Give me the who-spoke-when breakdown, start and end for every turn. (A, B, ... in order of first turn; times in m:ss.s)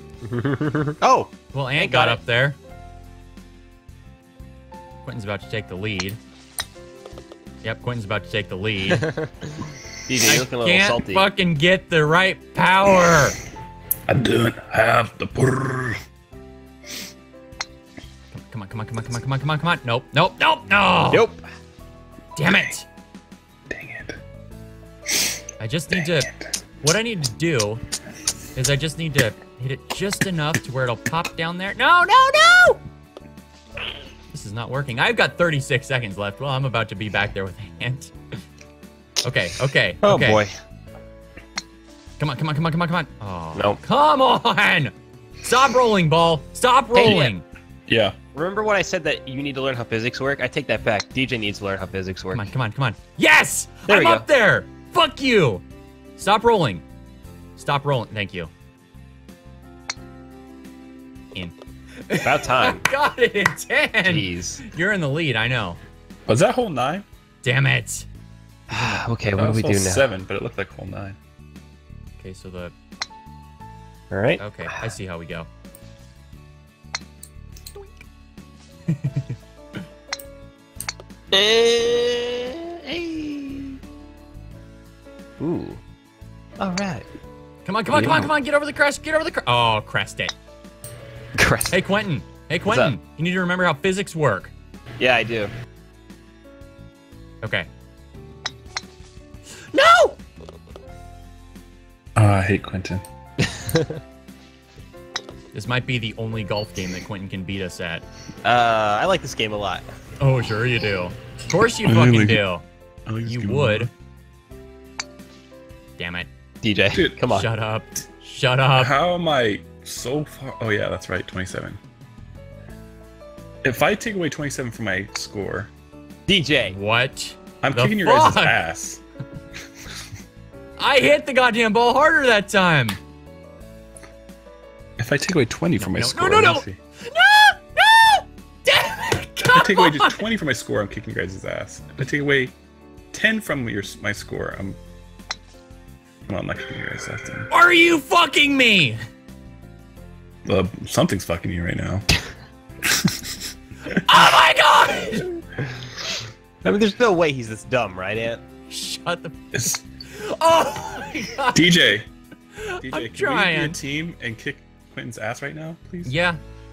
0:00.2-0:02.2 A
0:01.5-0:02.6 B
0:05.0-0:06.2 B
0:07.6-0:09.1 B
0:08.9-0:11.2 A
0:10.2-0:13.4 B
0:14.1-0:16.0 C
0:18.3-0:21.3 B
0:21.1-0:21.4 A
0:22.4-0:22.9 B
0:22.4-0:22.7 C
0:23.7-0:24.2 C
0:25.6-0:27.8 B
0:28.6-0:32.8 B
0:34.3-0:38.1 B
0:39.2-0:40.4 B
0:40.0-0:40.5 A
0:42.2-0:47.4 B
0:43.6-0:43.8 A
0:46.9-0:47.4 A
0:47.9-0:48.1 C
0:48.3-0:52.5 A
0:52.3-0:55.6 B
0:53.9-0:54.2 A
0:56.2-0:56.8 B
0:57.6-0:58.5 B
1:02.1-1:05.8 B
1:02.2-1:02.8 A
1:04.0-1:04.6 A
1:06.3-1:07.1 C
1:07.4-1:08.1 B
1:08.7-1:09.0 B
1:08.7-1:10.0 A
1:09.4-1:11.2 C
1:12.2-1:12.7 B
1:14.1-1:14.9 A
1:14.4-1:15.5 B
1:18.9-1:19.3 B
1:21.3-1:23.8 A
1:25.4-1:25.8 A
1:26.6-1:27.0 A
1:27.6-1:30.3 B
1:27.9-1:28.3 C
1:31.4-1:31.8 A
1:31.7-1:34.5 B
1:32.6-1:33.0 A
1:35.0-1:35.5 A
1:37.4-1:37.7 B
1:39.7-1:40.2 B
1:42.2-1:43.0 C
1:43.4-1:44.0 A
1:45.5-1:48.0 B
1:48.4-1:49.9 A
1:50.2-1:52.6 B
1:51.9-1:52.4 C
1:53.0-1:53.9 C
1:53.2-1:53.9 B
1:56.0-1:56.3 B
1:56.6-1:57.5 A
1:56.9-1:57.2 C
1:57.3-1:58.9 B
1:58.8-2:01.8 C
2:03.6-2:05.7 C
2:06.3-2:06.8 A
2:06.7-2:08.6 B
2:07.6-2:09.0 C
2:10.8-2:13.0 B
2:15.0-2:16.8 C
2:15.8-2:20.2 B
2:19.5-2:22.5 C
2:23.1-2:24.8 C
2:26.3-2:27.5 C
2:27.5-2:29.0 B
2:30.5-2:32.1 C
2:32.8-2:33.4 C
2:34.0-2:35.3 B
2:36.6-2:38.4 A
2:38.7-2:39.4 B
2:39.5-2:39.8 C
2:40.1-2:41.7 B
2:41.5-2:42.1 C
2:42.6-2:43.8 B
2:42.8-2:46.1 C
2:46.0-2:46.4 B